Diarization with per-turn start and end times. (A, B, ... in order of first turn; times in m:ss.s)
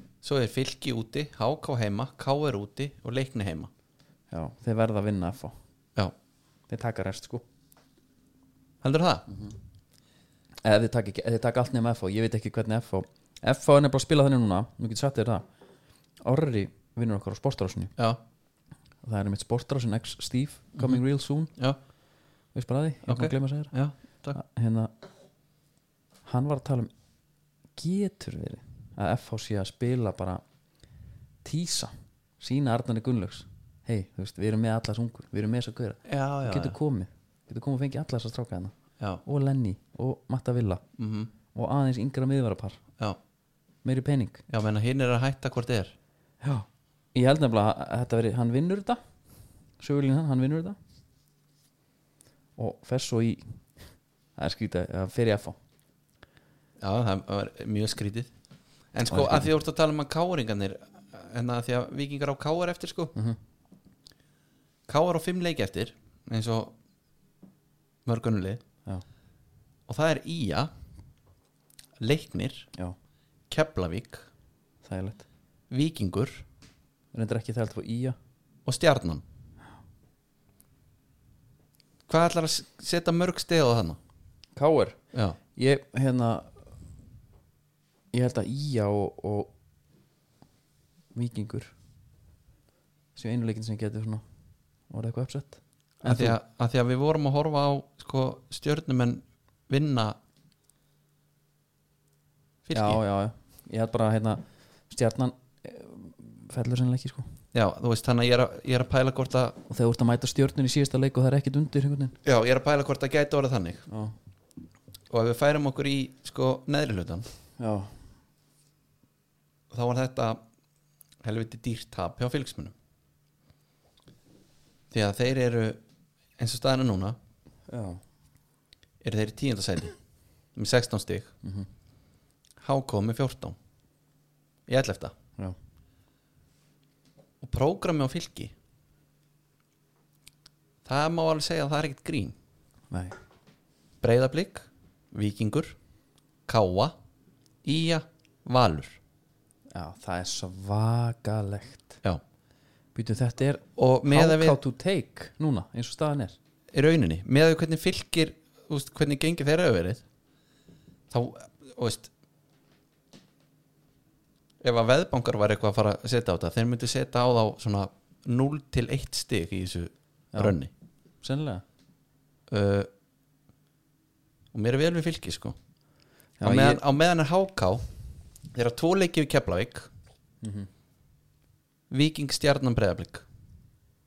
0:00.2-0:03.7 A
0:04.3-0:05.6 B
0:06.7-0:07.4 B
0:08.8-0:09.3 A
0:10.6-0:15.5 B
0:16.2-0:17.9 B
0:19.0-0:21.5 B
0:20.8-0:21.0 A
0:22.5-0:23.7 B
0:23.1-0:24.4 A
0:24.3-0:24.9 B
0:26.2-0:26.9 B
0:27.8-0:30.4 B
0:31.4-0:38.7 B
0:36.1-0:36.8 A
0:39.2-0:40.8 B
0:41.0-0:41.3 A
0:41.5-0:42.8 B
0:43.8-0:44.4 B
0:44.5-0:46.0 A
0:46.4-0:49.0 B
0:49.8-0:50.8 B
0:52.6-0:53.6 B
0:54.4-0:55.6 B
0:56.8-0:58.3 A
0:58.9-1:03.1 A
0:59.1-0:59.5 B
1:03.1-1:03.4 B
1:04.9-1:06.8 A
1:08.1-1:08.6 A
1:09.9-1:10.7 A
1:12.0-1:12.7 A
1:13.5-1:14.3 A
1:14.8-1:15.2 B
1:15.7-1:16.4 A
1:17.1-1:18.2 B
1:18.7-1:19.2 A
1:22.1-1:24.0 A
1:24.6-1:25.0 B
1:25.1-1:25.4 A
1:25.6-1:26.5 B
1:28.1-1:29.5 B
1:31.1-1:31.7 B
1:33.2-1:34.2 B
1:34.9-1:36.4 B
1:36.0-1:40.2 A
1:42.7-1:43.0 A
1:42.7-1:47.3 B
1:47.5-1:49.6 A
1:49.7-1:52.2 B
1:52.2-1:53.9 A
1:53.9-1:54.2 B
1:55.1-1:57.3 A
1:57.6-1:57.9 B
1:59.7-2:00.4 A
2:01.2-2:02.7 A
2:04.9-2:05.8 A
2:06.4-2:07.2 A
2:07.7-2:08.0 B
2:09.0-2:10.0 A
2:10.6-2:11.3 A
2:11.4-2:11.7 B
2:12.6-2:13.6 A
2:14.7-2:15.1 A
2:17.4-2:18.5 A
2:20.8-2:22.4 A
2:22.9-2:23.2 B
2:24.0-2:25.8 A
2:26.5-2:27.0 A
2:27.6-2:29.0 A
2:29.7-2:32.0 B
2:33.0-2:36.4 B
2:33.8-2:34.6 A
2:36.7-2:40.0 A
2:41.1-2:42.1 A
2:44.6-2:50.7 A
2:51.2-2:51.6 B
2:52.5-2:52.9 A
2:54.5-2:55.6 A
2:56.4-2:56.8 B
2:56.4-2:57.8 A
2:58.5-2:59.9 A
3:00.4-3:00.7 B
3:01.9-3:03.3 A